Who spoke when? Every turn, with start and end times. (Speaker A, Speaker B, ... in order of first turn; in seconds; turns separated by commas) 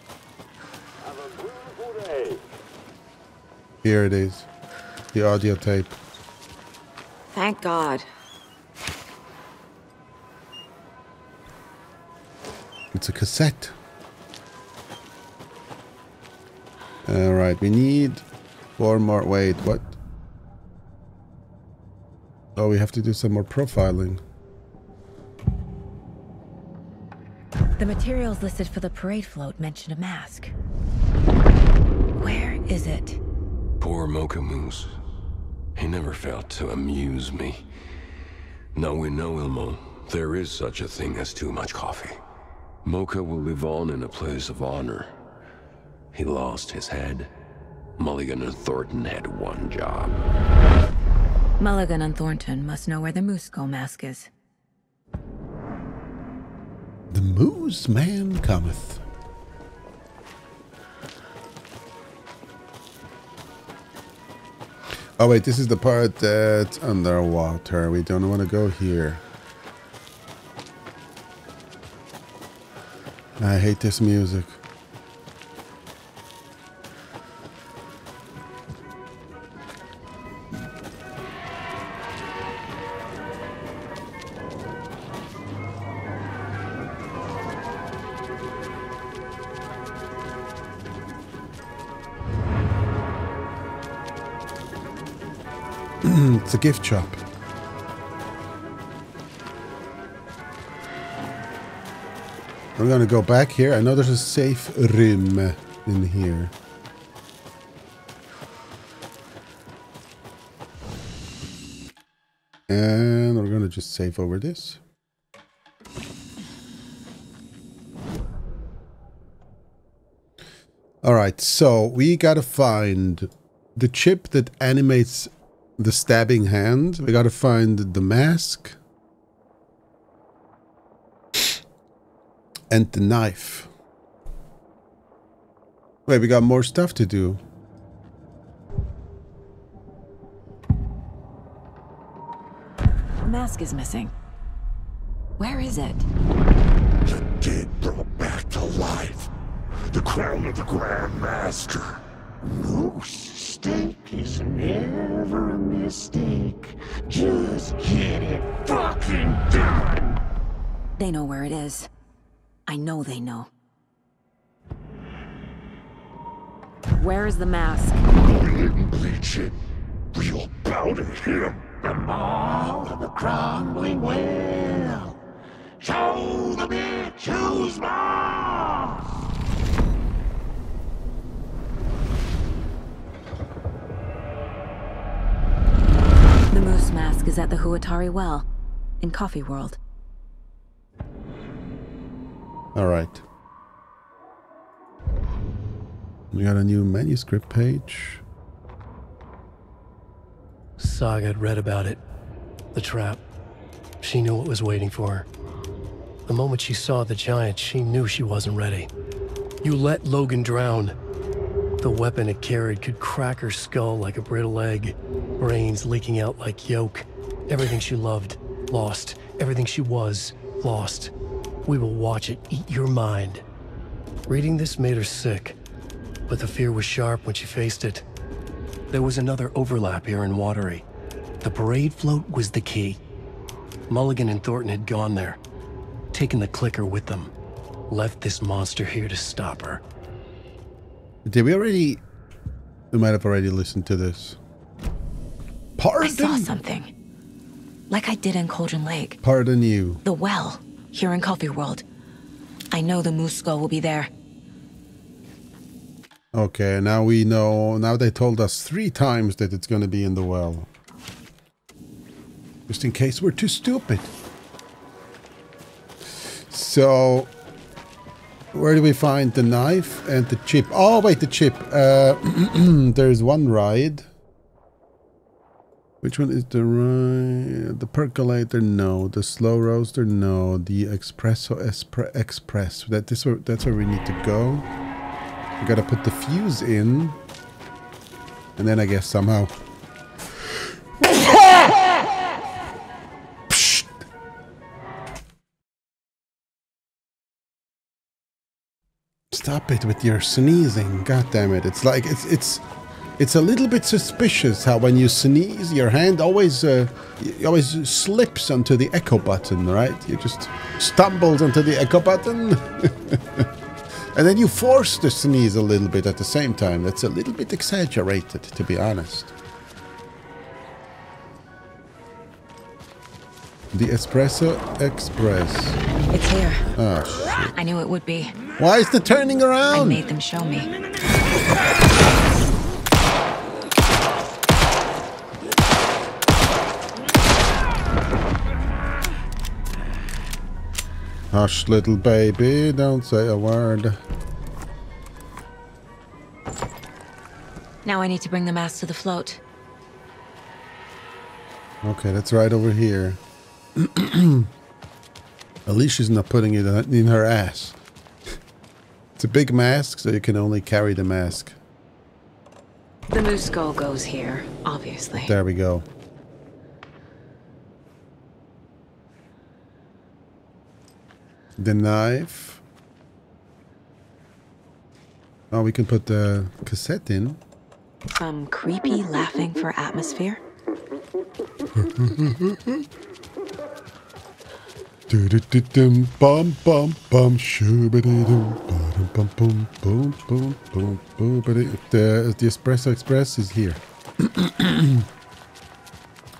Speaker A: 3.8-4.5, Speaker A: 5.1-6.0, Speaker B: 7.3-8.1, Speaker A: 12.9-13.8, Speaker A: 17.1-18.2, Speaker A: 18.8-19.9, Speaker A: 22.6-24.2, Speaker B: 27.8-30.5, Speaker B: 32.2-33.2, Speaker C: 33.8-34.9, Speaker C: 35.8-37.6, Speaker C: 38.8-42.2, Speaker C: 42.8-45.1, Speaker C: 46.1-47.3, Speaker C: 48.0-50.1, Speaker B: 51.6-54.3, Speaker A: 57.1-59.0, Speaker A: 65.2-69.2, Speaker A: 73.4-74.6, Speaker A: 96.0-97.2, Speaker A: 102.8-106.5, Speaker A: 112.7-114.8, Speaker A: 121.0-128.8, Speaker A: 132.7-133.7, Speaker A: 136.1-137.4, Speaker B: 143.2-144.1, Speaker B: 145.4-146.1, Speaker D: 147.1-149.3, Speaker D: 149.9-160.2, Speaker B: 161.0-161.9, Speaker B: 162.7-163.5, Speaker B: 167.0-168.1, Speaker D: 168.2-169.6, Speaker D: 170.1-175.2, Speaker D: 175.8-179.1, Speaker B: 186.5-188.5, Speaker B: 189.0-189.8, Speaker A: 192.8-193.2, Speaker A: 196.3-198.2, Speaker E: 200.8-202.0, Speaker E: 202.7-203.2, Speaker E: 204.0-205.3, Speaker E: 206.3-208.9, Speaker E: 209.6-211.0, Speaker E: 211.8-221.1, Speaker E: 221.7-223.4, Speaker E: 224.3-225.6, Speaker E: 226.3-228.1, Speaker E: 228.9-230.9, Speaker E: 231.4-233.0, Speaker E: 233.9-235.4, Speaker E: 236.1-237.3, Speaker E: 237.9-239.8, Speaker A: 241.3-242.0, Speaker A: 242.9-244.4, Speaker A: 245.8-246.5, Speaker B: 246.0-246.9, Speaker B: 247.9-249.2, Speaker A: 249.2-250.0, Speaker B: 250.1-251.8, Speaker B: 252.7-254.1, Speaker A: 256.3-260.7, Speaker A: 262.7-264.1, Speaker A: 266.5-267.3, Speaker A: 268.5-274.1, Speaker A: 276.0-284.7, Speaker A: 285.6-287.2, Speaker A: 288.6-289.5, Speaker A: 293.5-293.9, Speaker A: 299.3-302.6, Speaker A: 303.2-313.5, Speaker A: 314.1-319.3, Speaker A: 323.7-325.8, Speaker B: 326.1-326.7, Speaker A: 326.8-327.5, Speaker B: 327.6-328.4, Speaker A: 328.6-330.0, Speaker B: 329.7-330.7, Speaker A: 341.3-344.0, Speaker B: 347.9-349.4, Speaker A: 351.8-353.2, Speaker A: 353.8-354.5, Speaker A: 355.7-357.8, Speaker A: 359.2-361.6, Speaker B: 363.1-365.3, Speaker A: 365.2-365.9, Speaker A: 371.6-372.6, Speaker A: 375.5-377.4, Speaker B: 378.2-380.4, Speaker A: 381.8-382.9, Speaker A: 385.1-395.1